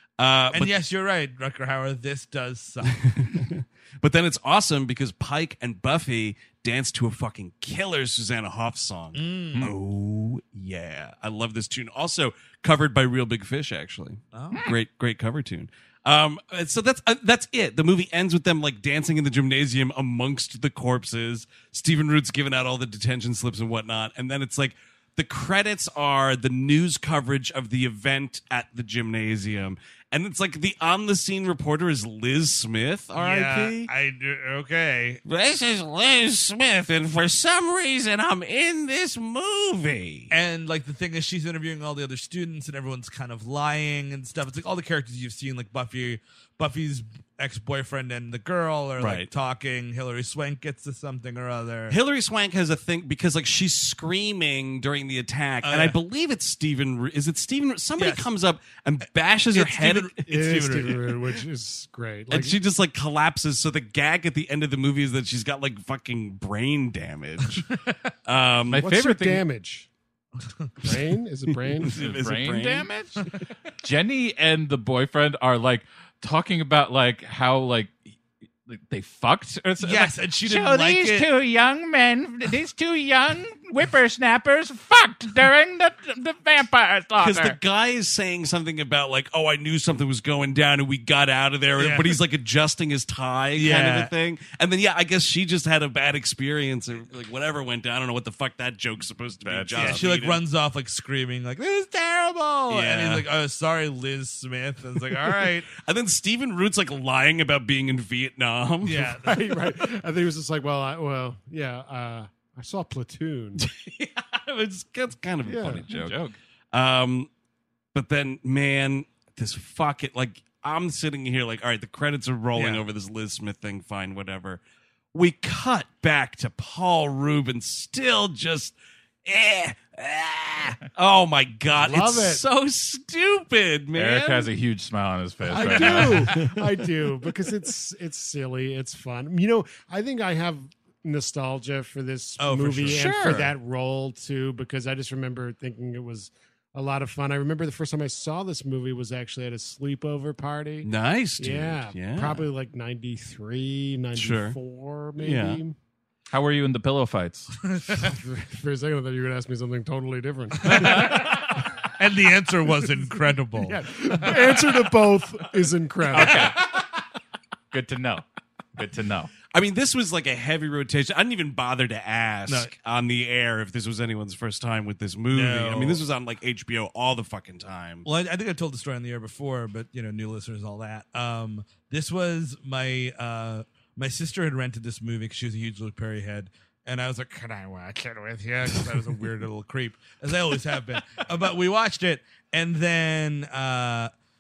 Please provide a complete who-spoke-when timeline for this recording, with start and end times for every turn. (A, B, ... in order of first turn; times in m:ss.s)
0:00.2-0:00.8 A
0:00.5-0:03.0 B
0:03.0-0:33.9 A
0:09.1-0:09.7 B
0:14.3-0:14.6 B
0:33.2-0:35.2 B
0:35.3-0:40.3 A
0:40.3-0:52.0 B
0:49.0-0:49.3 A
0:51.9-1:00.2 A
0:55.6-0:56.0 B
0:58.0-0:58.3 B
0:59.5-1:01.1 B
1:00.3-1:02.6 C
1:02.3-1:08.9 A
1:08.7-1:09.4 D
1:08.7-1:09.9 C
1:10.4-1:10.7 B
1:10.8-1:12.0 C
1:11.5-1:12.9 A
1:11.9-1:13.2 D
1:13.8-1:18.0 D
1:18.7-1:27.6 D
1:19.8-1:21.3 B
1:27.2-1:40.4 A
1:31.8-1:32.2 B
1:33.5-1:34.1 B
1:39.4-1:40.1 D
1:39.7-1:45.7 B
1:42.7-1:43.3 A
1:45.7-1:49.0 A
1:48.8-1:49.3 B
1:49.0-1:53.6 C
1:53.6-1:56.2 A
1:55.4-1:55.8 C
1:55.9-1:56.4 D
1:56.7-1:57.3 A
1:57.9-2:04.6 A
2:02.5-2:02.8 B
2:05.1-2:08.8 A
2:09.3-2:14.5 A
2:11.8-2:12.4 C
2:13.9-2:16.4 D
2:15.5-2:35.8 C
2:15.5-2:16.1 A
2:22.4-2:23.1 B
2:22.9-2:23.5 A
2:30.8-2:32.4 A
2:34.2-2:34.6 A
2:35.2-2:35.6 A
2:36.3-2:37.5 D
2:37.7-2:38.1 B
2:38.0-2:41.3 C
2:40.6-2:44.8 B
2:40.7-2:41.2 D
2:43.6-2:46.6 C
2:46.1-2:46.7 D
2:46.2-2:46.5 B
2:47.7-2:48.2 D
2:48.8-2:49.3 D
2:49.5-2:58.1 A
2:52.5-2:52.7 B
2:55.3-2:56.0 B
2:58.0-3:14.1 B